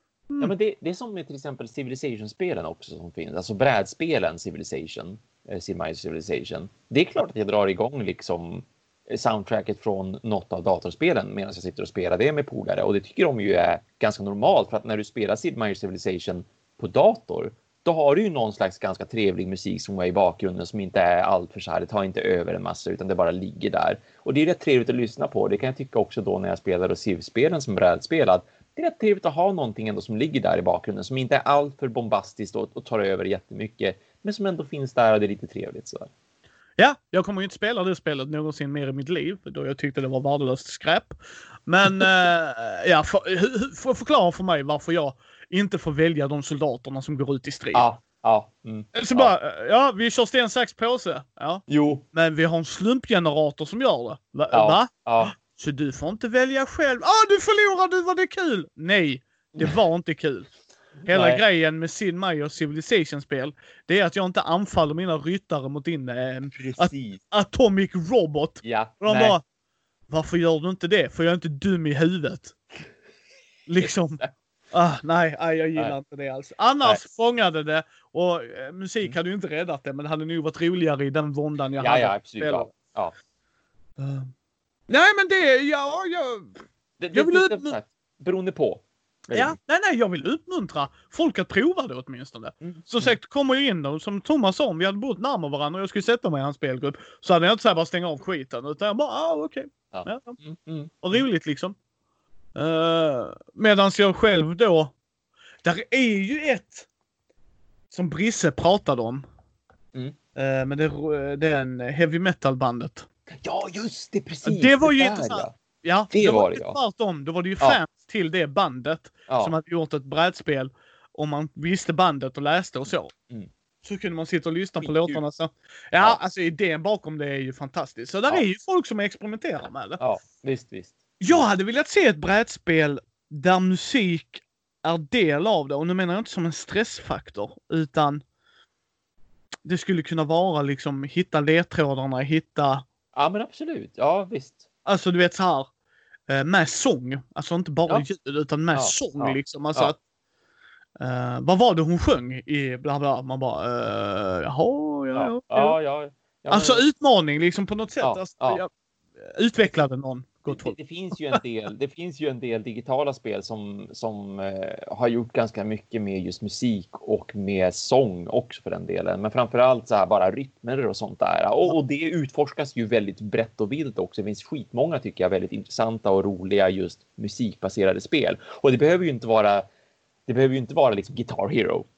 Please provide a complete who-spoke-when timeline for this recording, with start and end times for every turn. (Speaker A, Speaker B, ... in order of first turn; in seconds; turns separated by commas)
Speaker A: 0.4-36.1, Speaker B: 36.8-47.9, Speaker A: 47.7-49.3, Speaker B: 48.9-60.5, Speaker A: 51.7-52.0, Speaker A: 54.5-55.3, Speaker B: 61.1-69.4, Speaker A: 61.1-61.4, Speaker A: 66.5-67.2, Speaker A: 68.6-69.4, Speaker B: 70.1-72.6, Speaker B: 73.7-74.2, Speaker A: 73.8-74.3, Speaker B: 74.7-82.7, Speaker A: 81.8-83.1, Speaker B: 84.0-84.3, Speaker B: 84.9-86.6, Speaker A: 87.0-89.6, Speaker B: 87.1-87.8, Speaker B: 89.3-100.4, Speaker A: 92.6-93.1, Speaker A: 99.9-101.2, Speaker B: 101.0-101.8, Speaker B: 102.5-104.9, Speaker B: 105.6-106.9, Speaker B: 107.9-109.2, Speaker B: 110.3-113.1, Speaker A: 113.4-115.5, Speaker B: 114.4-123.1, Speaker A: 116.1-116.8, Speaker A: 119.3-119.5, Speaker B: 123.8-130.0, Speaker A: 124.8-125.2, Speaker A: 130.0-131.4, Speaker B: 131.2-138.2, Speaker B: 139.6-142.8, Speaker A: 143.1-144.7, Speaker B: 144.8-145.7, Speaker B: 146.3-150.0, Speaker A: 148.7-149.9, Speaker B: 151.0-155.8, Speaker A: 155.1-156.8, Speaker B: 156.5-161.4, Speaker A: 158.0-158.6, Speaker A: 160.5-179.6, Speaker A: 180.3-181.8